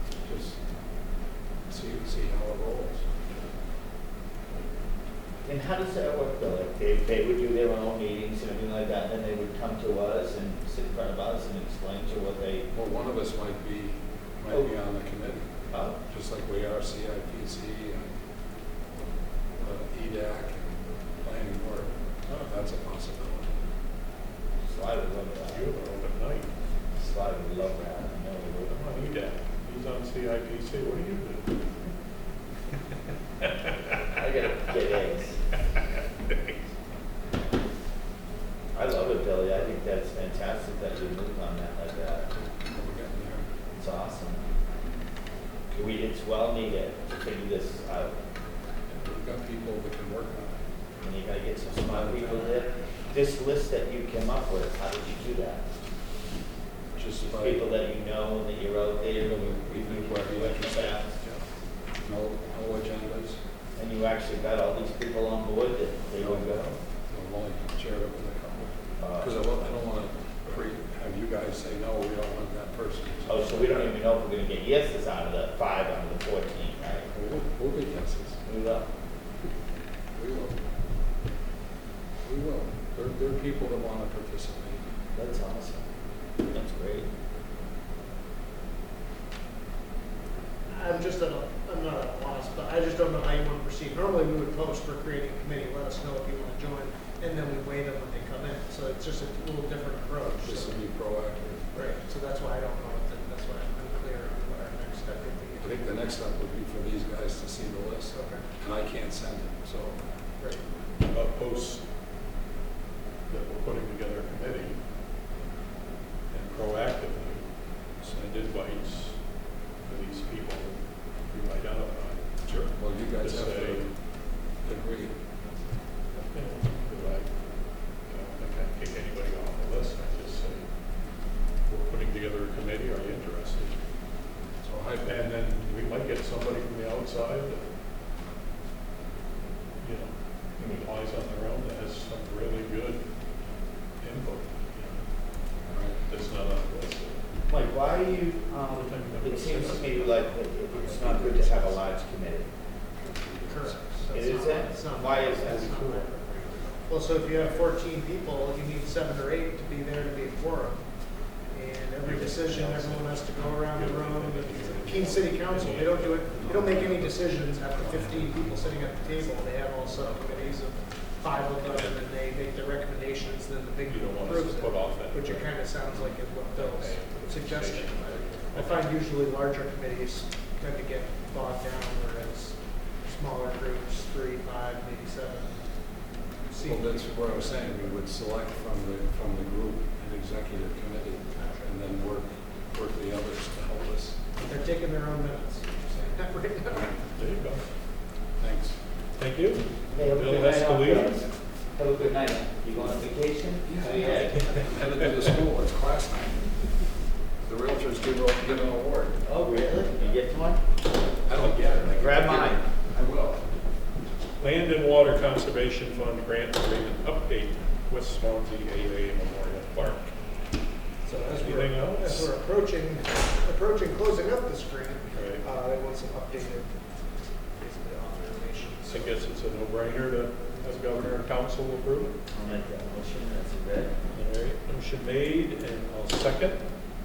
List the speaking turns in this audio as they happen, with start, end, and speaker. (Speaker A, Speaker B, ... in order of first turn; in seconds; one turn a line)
Speaker A: 0.2-0.6
Speaker A: 1.7-3.1
Speaker B: 5.4-12.7
Speaker A: 12.7-15.5
Speaker B: 15.7-16.0
Speaker A: 16.1-18.2
Speaker A: 19.6-23.5
Speaker B: 24.6-25.7
Speaker C: 25.5-26.5
Speaker B: 27.0-28.7
Speaker C: 28.7-31.6
Speaker B: 34.1-35.4
Speaker B: 38.7-42.2
Speaker A: 42.6-43.5
Speaker B: 43.8-44.4
Speaker B: 45.7-48.1
Speaker A: 48.9-50.6
Speaker B: 51.0-55.6
Speaker A: 51.9-52.6
Speaker A: 57.0-57.6
Speaker B: 57.2-61.2
Speaker A: 59.2-61.0
Speaker A: 62.0-63.4
Speaker B: 63.8-66.8
Speaker A: 66.2-66.6
Speaker A: 67.1-73.8
Speaker B: 69.0-69.4
Speaker B: 73.2-77.1
Speaker A: 77.1-78.4
Speaker B: 78.5-78.9
Speaker A: 80.2-80.6
Speaker A: 82.2-84.9
Speaker B: 85.1-85.8
Speaker B: 86.5-87.1
Speaker D: 90.7-100.8
Speaker A: 100.4-101.6
Speaker D: 101.7-105.9
Speaker A: 105.6-110.0
Speaker D: 108.1-108.4
Speaker C: 111.0-111.8
Speaker C: 113.3-114.8
Speaker C: 116.3-119.2
Speaker C: 119.8-122.6
Speaker A: 122.4-123.9
Speaker C: 123.2-123.9
Speaker A: 124.6-125.1
Speaker C: 126.2-127.3
Speaker C: 128.0-130.7
Speaker C: 131.6-133.8
Speaker A: 134.6-135.2
Speaker C: 135.0-137.6
Speaker C: 139.8-143.0
Speaker C: 144.0-145.0
Speaker A: 145.7-146.0
Speaker C: 146.1-147.2
Speaker B: 147.5-152.5
Speaker C: 148.7-150.4
Speaker A: 150.8-151.7
Speaker A: 153.0-153.8
Speaker D: 153.5-185.8
Speaker B: 154.1-155.8
Speaker A: 155.4-156.0
Speaker C: 162.0-167.1
Speaker A: 167.8-168.8
Speaker C: 171.6-172.0
Speaker C: 173.9-178.9
Speaker D: 186.5-188.0
Speaker A: 186.6-194.2
Speaker D: 191.3-191.6
Speaker D: 194.3-196.9
Speaker A: 196.7-197.0
Speaker C: 197.1-197.7
Speaker A: 198.4-198.8
Speaker C: 199.2-201.2
Speaker B: 199.9-204.5
Speaker A: 203.6-206.7
Speaker A: 207.4-209.2
Speaker B: 209.2-210.6
Speaker A: 211.2-213.4
Speaker B: 211.8-212.6
Speaker C: 214.4-220.1
Speaker D: 221.0-226.7
Speaker C: 221.3-222.3
Speaker C: 225.1-225.4
Speaker D: 227.6-229.2
Speaker C: 228.9-232.2
Speaker B: 232.3-233.9
Speaker C: 234.1-236.6